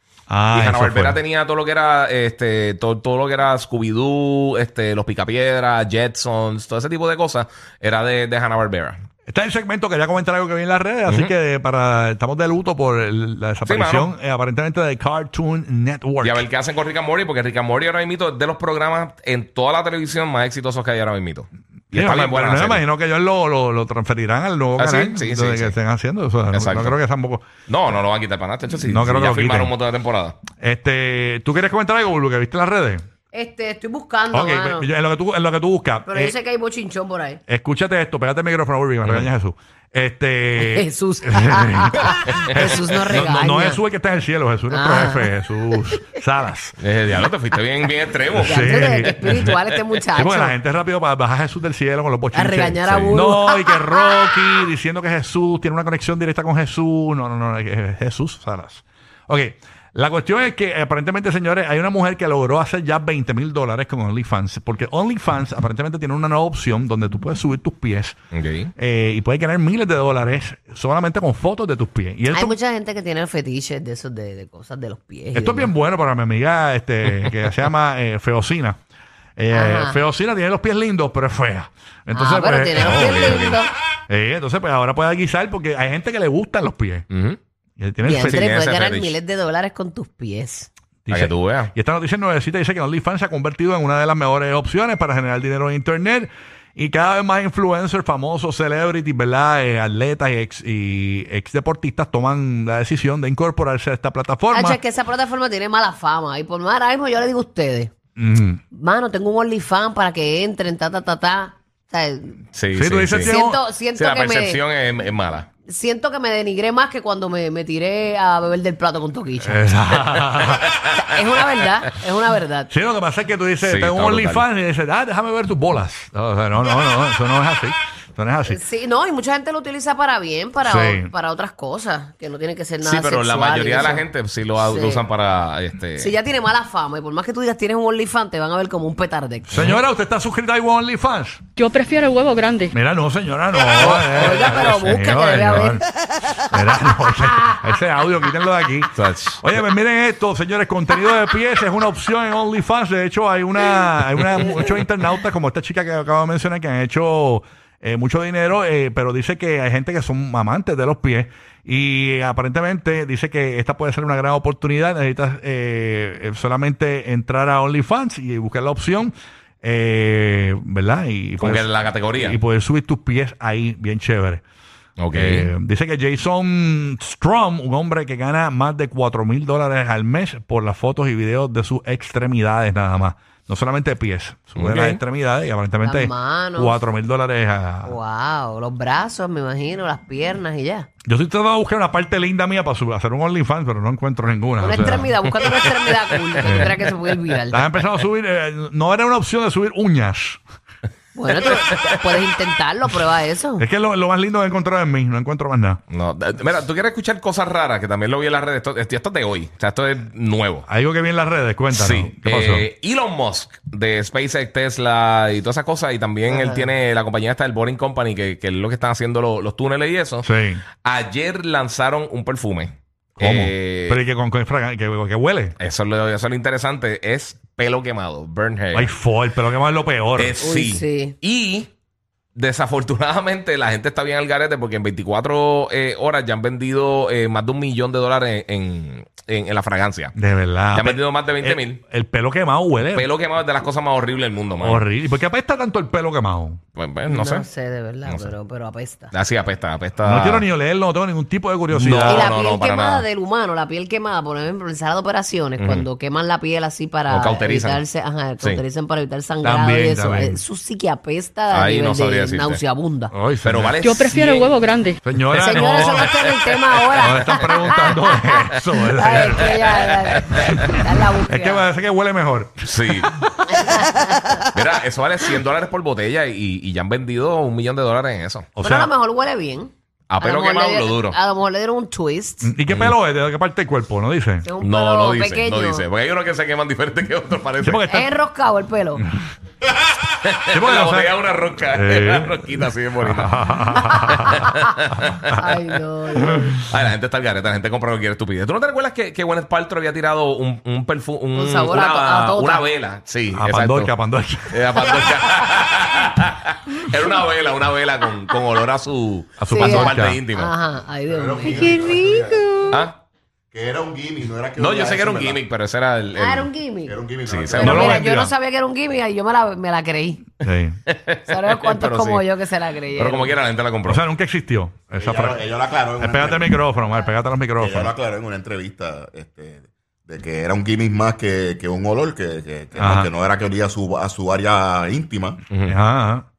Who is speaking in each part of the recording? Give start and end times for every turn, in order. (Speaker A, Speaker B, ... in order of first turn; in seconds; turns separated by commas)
Speaker A: 0.3-1.2, Speaker B: 0.5-9.0, Speaker A: 9.3-16.4, Speaker B: 11.1-11.3, Speaker B: 13.6-14.1, Speaker B: 16.2-22.8, Speaker A: 21.9-27.4, Speaker B: 24.8-25.8, Speaker B: 26.5-27.0, Speaker B: 27.7-30.4, Speaker A: 28.8-29.7, Speaker A: 30.5-33.0, Speaker C: 33.3-34.9, Speaker A: 34.3-36.3, Speaker C: 36.0-37.4, Speaker A: 37.5-46.8, Speaker B: 39.0-39.3, Speaker C: 40.6-43.8, Speaker B: 42.5-42.9, Speaker C: 44.7-46.0, Speaker B: 46.8-49.5, Speaker A: 48.3-49.4, Speaker C: 48.4-50.5, Speaker A: 50.1-68.2, Speaker C: 52.3-54.4, Speaker B: 68.3-68.7, Speaker A: 68.8-72.6, Speaker C: 72.3-75.7, Speaker A: 75.3-78.8, Speaker A: 79.4-83.4, Speaker C: 79.5-80.0, Speaker C: 82.1-83.7, Speaker B: 82.8-83.6, Speaker A: 84.1-87.1, Speaker B: 87.1-87.4, Speaker A: 87.8-88.5, Speaker C: 88.0-90.7, Speaker B: 88.2-89.1, Speaker A: 91.0-104.8, Speaker B: 91.1-91.7, Speaker C: 104.5-107.9, Speaker A: 108.2-108.6, Speaker C: 108.7-112.4, Speaker B: 112.5-113.3, Speaker A: 112.7-113.6, Speaker C: 113.2-114.6, Speaker B: 113.9-115.5, Speaker C: 115.7-119.7, Speaker A: 119.4-120.7, Speaker B: 120.5-120.8, Speaker C: 120.9-122.7, Speaker A: 122.7-128.6, Speaker B: 123.6-124.5, Speaker C: 128.4-134.1, Speaker A: 130.6-131.1, Speaker B: 132.8-136.1, Speaker C: 134.6-135.1, Speaker C: 136.0-139.7, Speaker A: 139.5-141.4, Speaker D: 141.6-142.7, Speaker A: 142.7-145.8, Speaker C: 143.8-145.8, Speaker B: 144.2-144.7, Speaker A: 146.5-174.4, Speaker B: 148.9-149.4, Speaker B: 171.4-172.4, Speaker B: 175.0-175.5, Speaker A: 175.1-187.9, Speaker B: 184.6-185.0, Speaker C: 185.8-186.8, Speaker C: 187.8-190.9, Speaker A: 191.1-195.1, Speaker C: 194.6-197.6, Speaker A: 196.4-196.7, Speaker A: 197.5-200.4, Speaker C: 201.1-203.6, Speaker A: 203.6-205.8, Speaker B: 205.9-210.7, Speaker A: 210.7-212.7, Speaker B: 211.7-220.3, Speaker C: 216.3-216.6, Speaker A: 220.2-220.6, Speaker B: 220.8-224.0, Speaker A: 223.2-225.6, Speaker B: 225.6-228.9, Speaker A: 228.7-230.3, Speaker B: 230.2-231.7, Speaker C: 230.4-231.2, Speaker B: 232.3-240.1, Speaker A: 240.1-243.1, Speaker B: 240.7-241.8, Speaker B: 242.9-244.8, Speaker A: 244.6-246.6, Speaker B: 246.8-247.4, Speaker C: 247.1-249.1, Speaker B: 248.1-248.3, Speaker B: 249.1-250.4, Speaker A: 250.0-252.3, Speaker B: 251.7-253.0, Speaker C: 252.1-263.1, Speaker B: 255.6-255.9, Speaker B: 257.1-257.8, Speaker A: 259.4-260.4, Speaker B: 261.5-262.6, Speaker A: 263.1-263.7, Speaker B: 263.4-264.6, Speaker D: 263.8-265.0, Speaker A: 265.0-266.1, Speaker C: 265.4-271.6, Speaker B: 265.4-266.1, Speaker A: 266.9-270.7, Speaker A: 271.3-273.3, Speaker B: 272.6-273.1, Speaker C: 273.4-274.4, Speaker B: 274.5-278.5, Speaker A: 278.6-278.9, Speaker C: 278.6-282.5, Speaker B: 280.1-281.2, Speaker A: 282.4-284.5, Speaker B: 282.7-282.9, Speaker C: 284.4-285.9, Speaker B: 284.6-287.8, Speaker A: 287.6-288.1, Speaker C: 287.9-289.0, Speaker B: 290.1-295.5, Speaker A: 290.5-294.5, Speaker C: 293.7-294.6, Speaker C: 295.3-296.6, Speaker B: 296.3-303.9, Speaker C: 301.3-302.6, Speaker A: 303.3-305.1, Speaker B: 304.5-310.5, Speaker A: 309.4-310.2, Speaker C: 309.5-312.2, Speaker E: 311.1-312.8, Speaker D: 311.5-312.8, Speaker B: 312.7-313.0, Speaker E: 313.5-315.4, Speaker B: 314.5-316.5, Speaker C: 316.1-317.0, Speaker E: 316.9-318.0, Speaker B: 317.2-317.9, Speaker C: 317.6-320.2, Speaker A: 317.6-318.3, Speaker A: 320.4-320.8, Speaker B: 320.9-322.3, Speaker C: 321.2-323.4, Speaker B: 322.9-324.0, Speaker A: 323.9-325.4, Speaker E: 325.0-326.5, Speaker A: 326.0-327.9, Speaker E: 327.6-335.4, Speaker A: 332.8-333.1, Speaker B: 335.5-335.8, Speaker A: 335.6-336.2